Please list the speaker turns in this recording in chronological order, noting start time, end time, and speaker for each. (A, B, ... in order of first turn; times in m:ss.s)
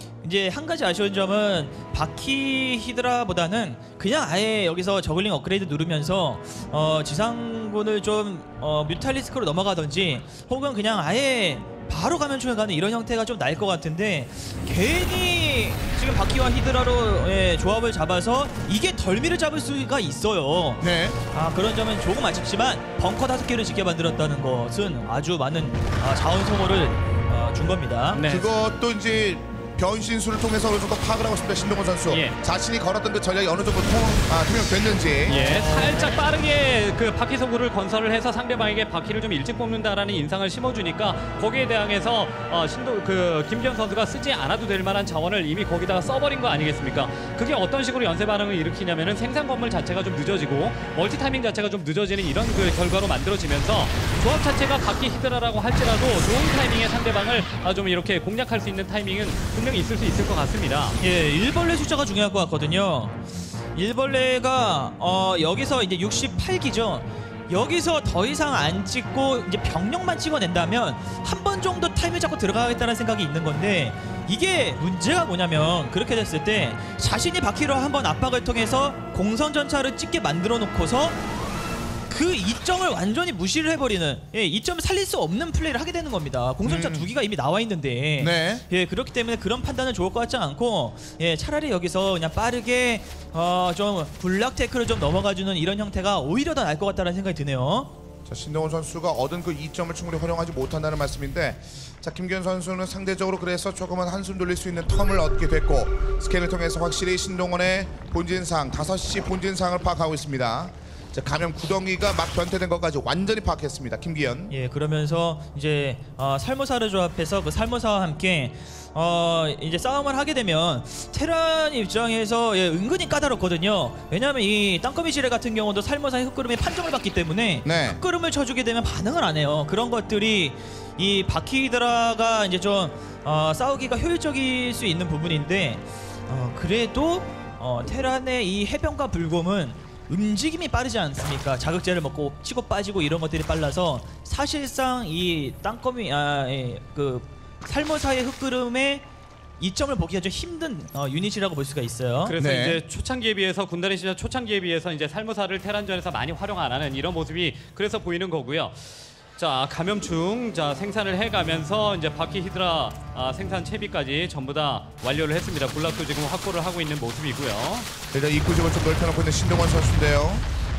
0:00.2-0:28.2 A
0:20.8-0:21.2 B
0:28.1-0:28.5 C
0:28.2-0:35.4 B
0:32.1-0:32.4 C
0:35.3-0:36.2 A
0:35.3-1:01.0 C
1:01.0-1:03.2 A
1:03.7-1:21.2 A
1:22.1-1:37.9 A
1:26.6-1:27.1 B
1:28.2-1:28.6 B
1:38.2-1:54.5 B
1:54.5-2:29.0 A
2:07.6-2:08.0 B
2:29.6-2:32.4 A
2:32.2-2:38.8 C
2:32.4-2:32.8 B
2:39.4-2:47.9 C
2:48.1-2:50.4 B